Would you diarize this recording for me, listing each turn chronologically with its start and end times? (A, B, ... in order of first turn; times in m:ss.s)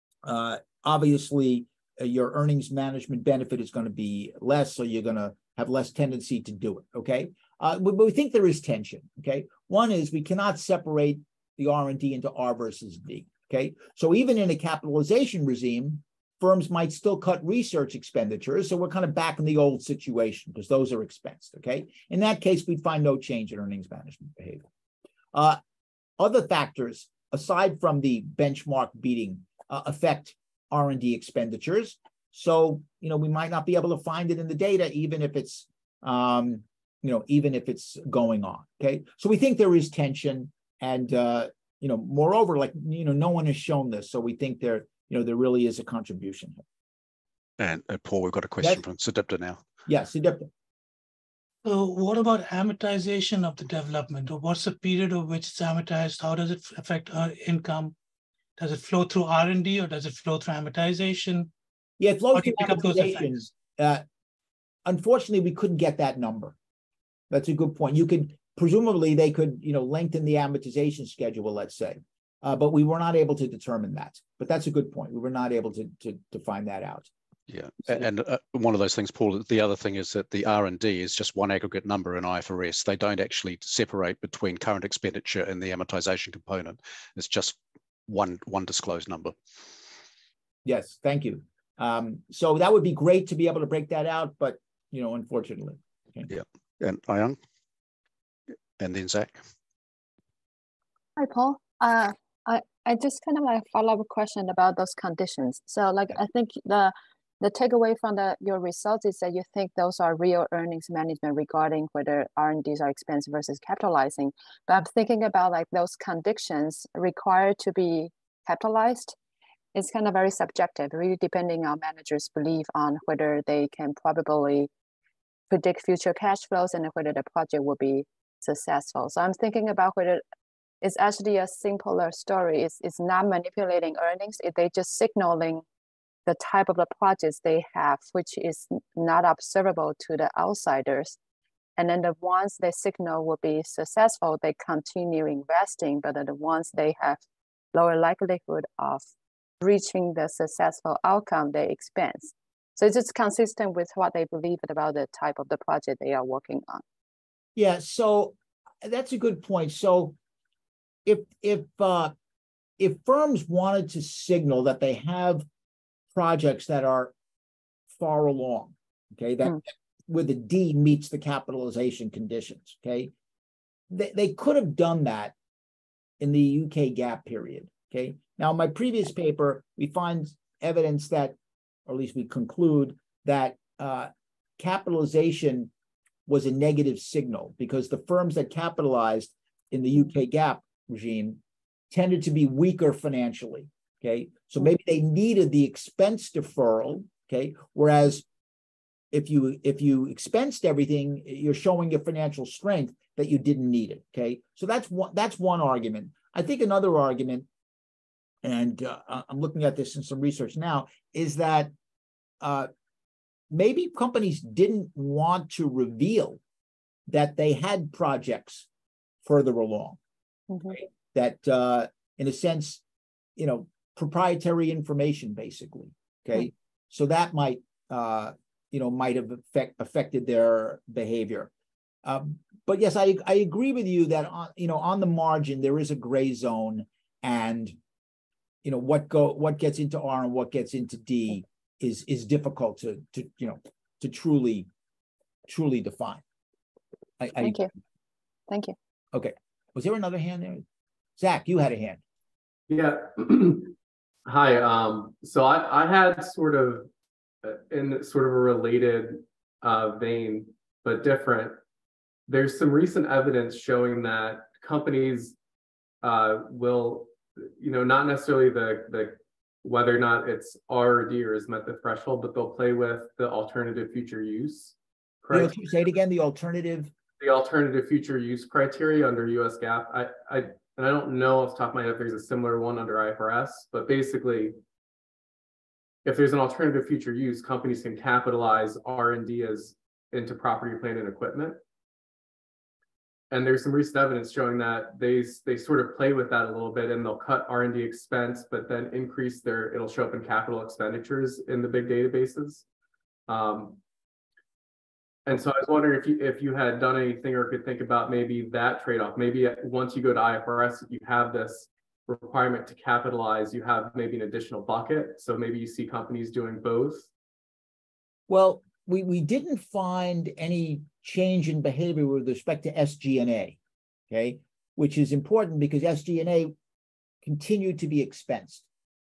0:00.2-0:24.6 A
0:25.3-0:25.6 A
0:26.2-0:46.6 A
0:47.6-0:49.6 B
0:49.9-0:50.5 A
0:51.6-0:57.9 C
0:58.6-1:01.5 C
1:02.0-1:04.0 A
1:02.3-1:03.4 C
1:04.8-1:06.6 A
1:07.3-1:17.1 A
1:17.5-1:29.4 B
1:30.6-1:36.3 A
1:36.3-1:37.4 B
1:38.8-1:39.4 B
1:41.2-1:59.2 D
1:59.7-2:04.7 D
2:05.5-2:10.2 D
2:10.8-2:15.6 D
2:16.2-2:21.2 D
2:21.8-2:27.2 D
2:27.7-2:29.0 D
2:29.6-2:36.8 D
2:37.6-2:40.2 A
2:41.0-2:42.1 A
2:42.8-2:45.4 A
2:46.1-2:47.1 A
2:47.9-2:53.1 A
2:53.9-2:55.3 A
2:56.2-3:01.3 A
3:01.8-3:05.7 A
3:06.3-3:11.4 A
3:11.9-3:18.2 A
3:19.1-3:27.4 A
3:28.4-3:31.7 A
3:32.4-3:32.7 A
3:33.5-3:36.4 A
3:37.1-3:38.7 A
3:39.2-3:40.0 A
3:40.5-3:40.8 D
3:40.7-3:42.8 A
3:43.4-3:51.5 A
3:52.0-3:57.8 A
3:58.6-4:04.7 A
4:05.5-4:06.2 A
4:07.2-4:07.6 A
4:07.4-4:07.7 D
4:08.5-4:08.7 D
4:09.1-4:10.6 A
4:11.2-4:12.0 A
4:12.7-4:13.7 E
4:14.2-4:16.9 E
4:17.4-4:21.6 E
4:22.3-4:25.4 E
4:26.0-4:35.5 E
4:35.3-4:36.9 A
4:37.2-4:44.6 E
4:46.0-4:51.6 E
4:53.3-5:02.6 E
5:03.3-5:03.8 E
5:05.2-5:17.1 E
5:18.3-5:23.6 A
5:24.1-5:26.5 A
5:27.2-5:28.6 A